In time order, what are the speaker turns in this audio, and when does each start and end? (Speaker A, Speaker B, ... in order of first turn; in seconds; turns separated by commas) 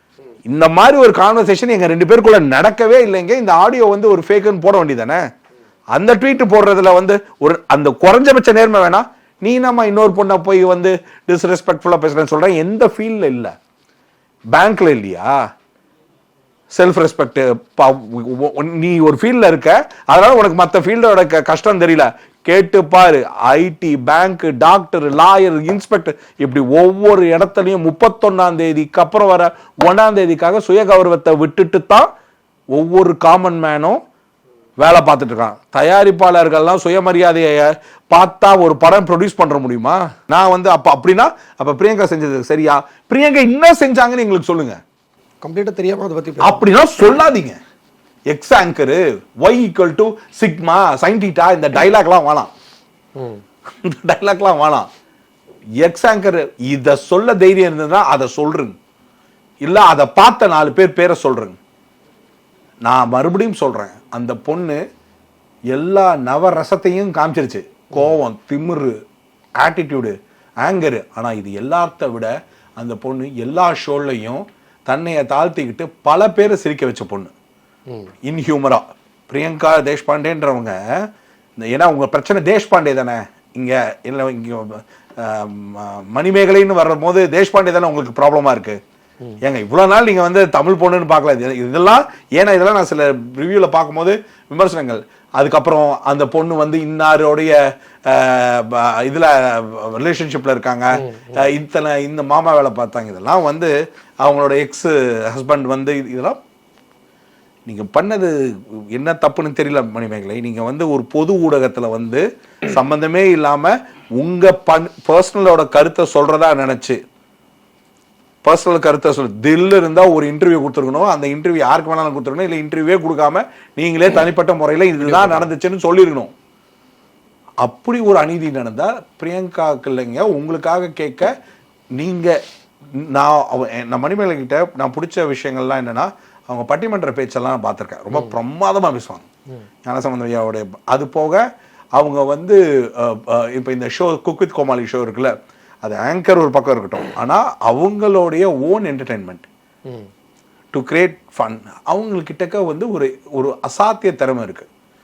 Speaker A: 0.5-5.2, Speaker A: 5.9-13.6, Speaker A: 14.5-15.3, Speaker A: 16.7-32.1, Speaker A: 32.7-34.0, Speaker A: 34.8-44.8, Speaker B: 45.4-46.6, Speaker A: 46.4-47.6, Speaker A: 48.3-52.5, Speaker B: 53.2-53.4, Speaker A: 53.7-54.9, Speaker A: 55.8-58.8, Speaker A: 59.6-61.6, Speaker A: 62.9-64.8, Speaker A: 65.7-69.0, Speaker A: 69.6-77.3, Speaker A: 78.2-88.8, Speaker A: 89.4-103.7, Speaker B: 101.0-101.5, Speaker A: 104.2-106.4, Speaker A: 107.7-117.0, Speaker A: 118.4-126.3, Speaker B: 125.0-125.5, Speaker A: 127.6-131.3, Speaker A: 132.0-132.4, Speaker A: 132.9-139.2, Speaker A: 139.8-149.5, Speaker A: 150.7-154.7